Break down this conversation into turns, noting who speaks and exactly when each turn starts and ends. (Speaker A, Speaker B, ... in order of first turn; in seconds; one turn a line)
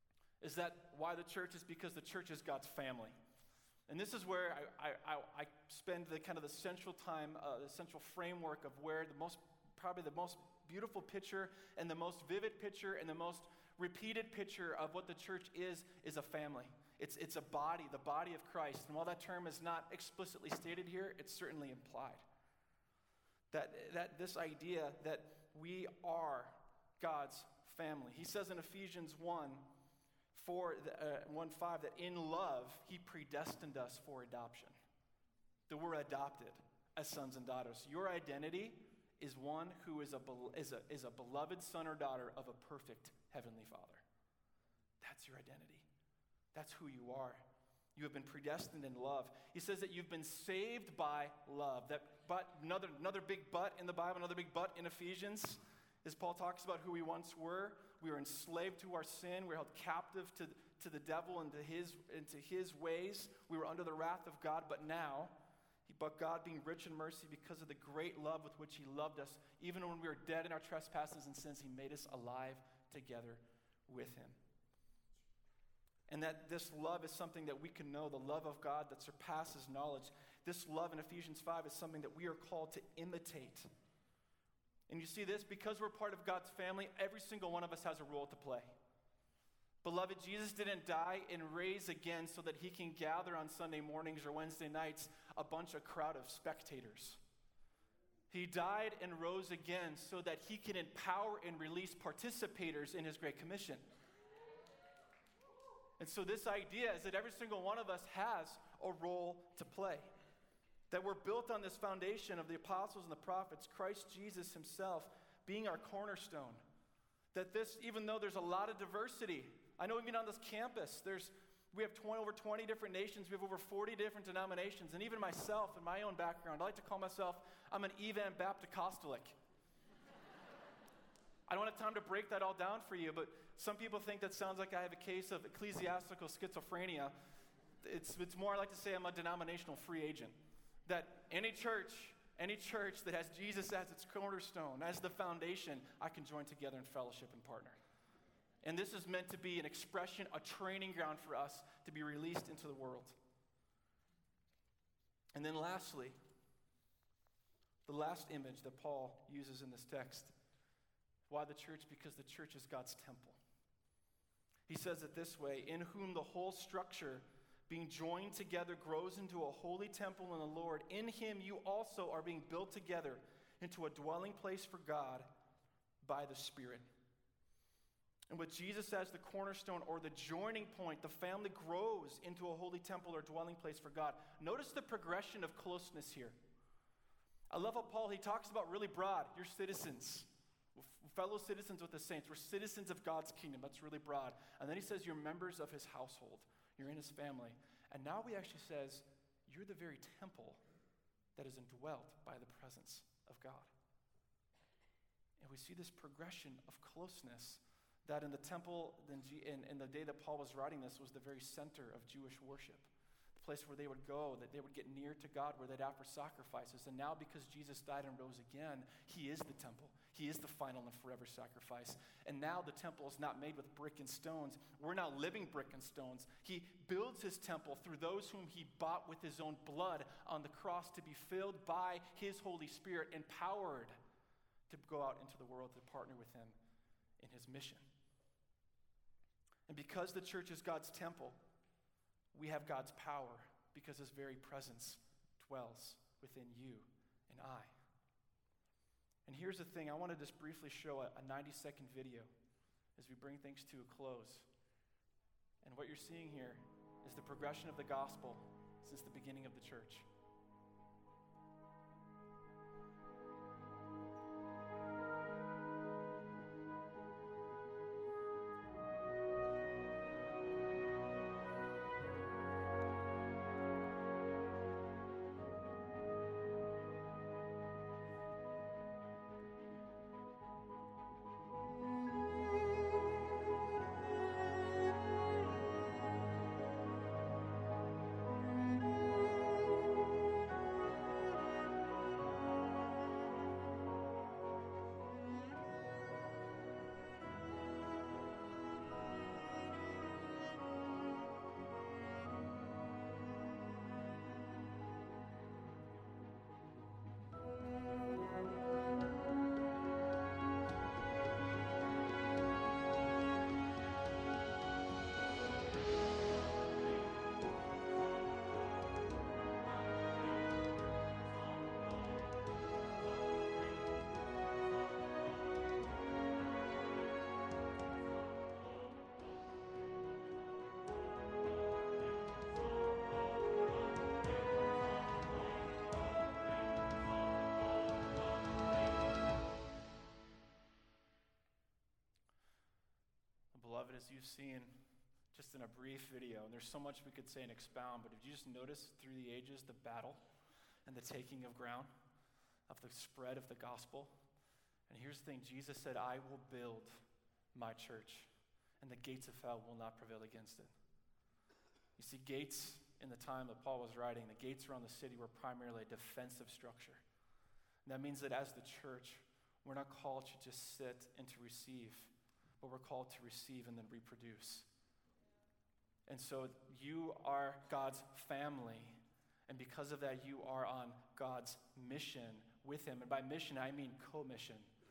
Speaker A: 0.4-3.1
Speaker A: 3.9-22.2
Speaker A: 23.5-29.6
Speaker A: 30.3-34.8
Speaker A: 35.7-44.0
Speaker A: 45.0-45.9
Speaker A: 46.5-47.4
Speaker A: 48.0-65.3
Speaker A: 65.8-74.4
Speaker A: 76.1-83.7
Speaker A: 84.9-88.7
Speaker A: 89.8-97.2
Speaker A: 98.3-103.8
Speaker A: 106.0-110.1
Speaker A: 110.9-116.6
Speaker A: 117.3-129.3
Speaker A: 131.5-137.1
Speaker A: 137.8-147.8
Speaker A: 148.6-153.2
Speaker A: 155.3-156.2
Speaker A: 157.8-160.3
Speaker A: 161.3-163.4
Speaker A: 164.7-175.3
Speaker A: 176.0-176.9
Speaker A: 178.3-186.4
Speaker A: 187.5-200.6
Speaker A: 201.3-203.7
Speaker A: 205.4-233.9
Speaker A: 234.7-236.6
Speaker A: 237.2-237.8
Speaker A: 239.7-241.4
Speaker A: 242.3-247.7
Speaker A: 249.2-252.3
Speaker A: 252.9-254.5
Speaker A: 255.6-260.1
Speaker A: 343.5-344.8
Speaker A: 345.3-350.2
Speaker A: 350.9-351.9
Speaker A: 352.7-354.1
Speaker A: 354.9-357.0
Speaker A: 357.5-358.3
Speaker A: 358.8-360.7
Speaker A: 362.0-367.0
Speaker A: 367.8-374.7
Speaker A: 376.1-384.7